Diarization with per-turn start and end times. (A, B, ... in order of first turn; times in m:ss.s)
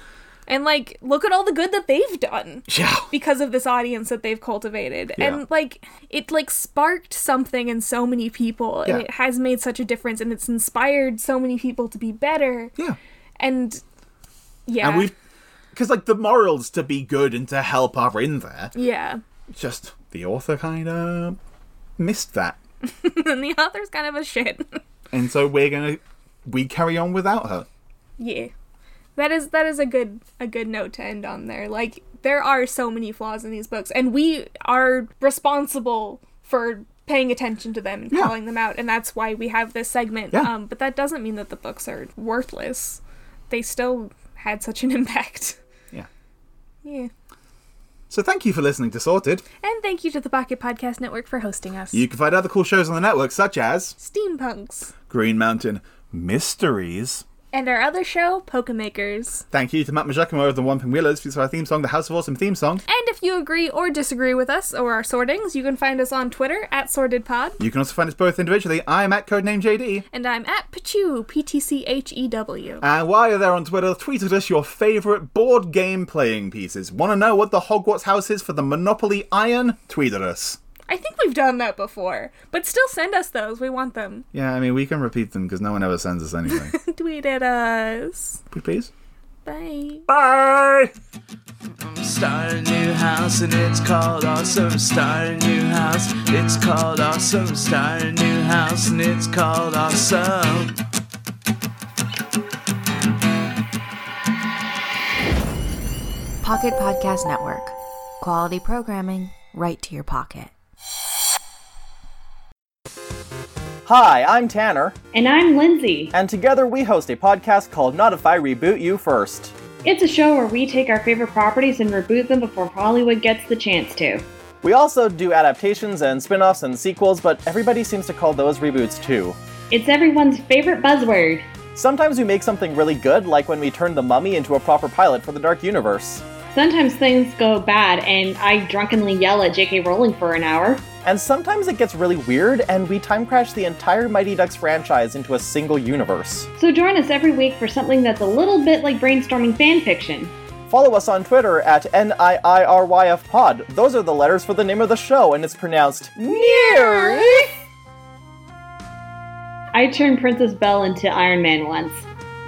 0:00.5-0:12.7 A
0:02.7-0:03.1 B
0:13.4-0:13.8 A
0:14.7-0:15.1 A
0:14.8-0:15.1 B
0:15.7-0:18.7 B
0:18.7-0:19.2 A
0:19.5-0:21.4 B
0:22.0-0:22.6 B
0:22.8-0:24.8 A
0:25.1-0:27.7 B
0:28.2-0:28.5 A
0:29.2-0:45.6 A
0:46.8-0:47.1 A
0:48.1-0:49.4 B
0:49.6-0:52.0 A
0:51.9-0:53.9 B
0:54.0-0:54.9 A
0:55.1-0:57.2 B
0:57.5-0:59.4 A
0:59.5-1:02.8 B
1:02.9-1:07.6 A
1:07.6-1:10.0 B
1:10.1-1:12.8 A
1:12.8-1:20.6 B
1:20.9-1:24.2 A
1:24.3-1:26.7 B
1:26.5-1:28.4 A
1:28.5-1:28.9 B
1:29.4-1:30.0 A
1:30.1-1:30.9 B
1:31.8-1:40.8 C
1:46.4-1:50.5 D
1:53.8-1:55.0 E
1:55.1-1:56.1 F
1:56.1-1:59.5 E
1:59.8-2:04.2 F
2:04.6-2:09.4 E
2:09.7-2:11.5 F
2:11.7-2:16.2 E
2:16.5-2:20.9 F
2:21.0-2:26.5 E
2:26.6-2:30.3 F
2:30.7-2:37.5 E
2:36.4-2:37.3 F
2:36.8-2:37.2 A
2:39.7-2:42.0 F